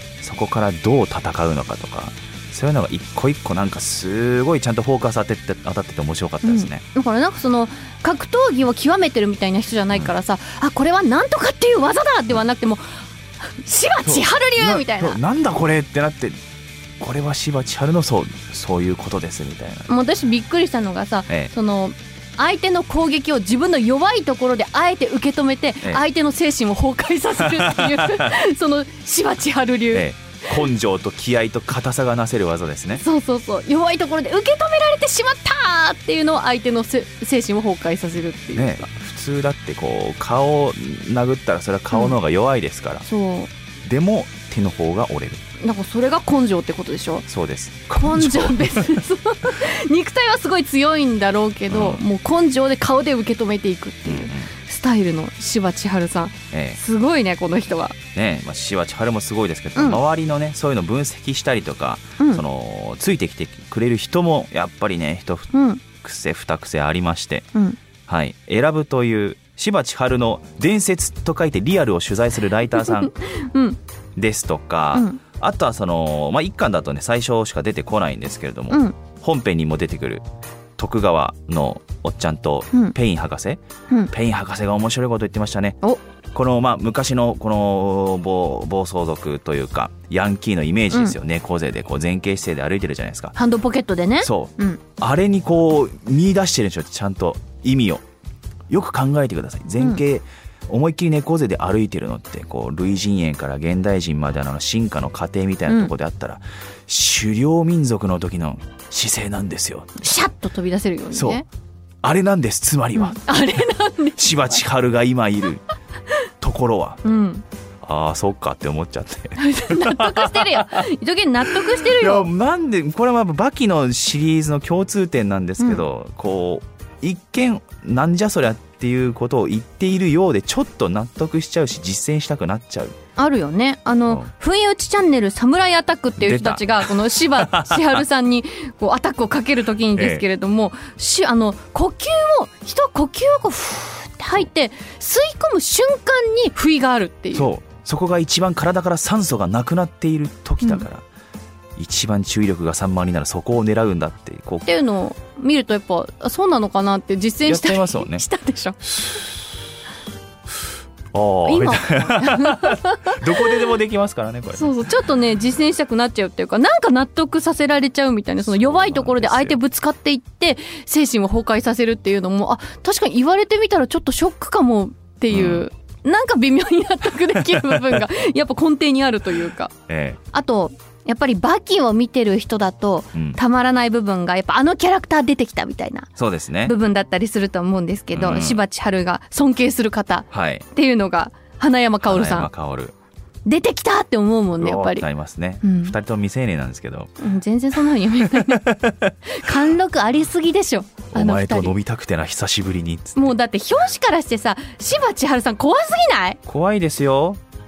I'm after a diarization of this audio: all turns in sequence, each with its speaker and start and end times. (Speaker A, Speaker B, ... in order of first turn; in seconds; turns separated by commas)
Speaker A: 0.2-6.8, Speaker B: 6.4-12.8, Speaker B: 13.5-15.2, Speaker A: 14.1-16.4, Speaker A: 17.0-19.9, Speaker B: 19.9-30.5, Speaker A: 27.4-28.3, Speaker A: 29.9-33.0, Speaker B: 33.0-38.8, Speaker A: 38.5-43.1, Speaker B: 43.0-43.5, Speaker A: 43.8-45.4, Speaker B: 45.6-47.3, Speaker A: 47.3-49.0, Speaker B: 48.0-58.0, Speaker A: 51.7-52.0, Speaker A: 54.1-54.5, Speaker A: 56.5-56.8, Speaker A: 58.1-67.5, Speaker B: 65.5-65.8, Speaker A: 68.1-73.2, Speaker B: 72.8-73.8, Speaker A: 74.2-80.2, Speaker A: 80.8-85.8, Speaker A: 86.3-93.4, Speaker B: 93.4-94.8, Speaker A: 94.2-98.0, Speaker A: 98.7-110.0, Speaker B: 110.0-111.4, Speaker A: 111.1-111.4, Speaker A: 112.0-113.2, Speaker B: 113.0-114.3, Speaker A: 114.2-115.6, Speaker A: 116.4-117.0, Speaker B: 117.0-117.4, Speaker A: 117.8-120.9, Speaker B: 119.4-122.3, Speaker A: 121.4-132.9, Speaker B: 133.2-147.5, Speaker A: 136.2-138.0, Speaker A: 139.9-140.2, Speaker A: 147.3-151.0, Speaker A: 151.8-154.7, Speaker B: 154.7-158.8, Speaker A: 157.4-158.2, Speaker A: 158.9-159.2, Speaker A: 161.1-164.9, Speaker B: 161.5-163.2, Speaker B: 164.6-179.7, Speaker A: 168.4-169.6, Speaker A: 175.3-175.7, Speaker A: 177.3-178.1, Speaker A: 179.9-180.2, Speaker B: 180.3-186.1, Speaker A: 183.1-183.4, Speaker A: 186.2-186.8, Speaker B: 186.7-192.5, Speaker A: 188.1-188.6, Speaker A: 190.3-190.7, Speaker A: 192.0-192.9, Speaker B: 193.5-195.0, Speaker A: 194.6-197.1, Speaker B: 195.6-195.9, Speaker B: 197.2-198.7, Speaker A: 198.2-199.7, Speaker B: 199.4-201.7, Speaker A: 201.1-203.3, Speaker B: 203.2-206.4, Speaker A: 206.5-207.4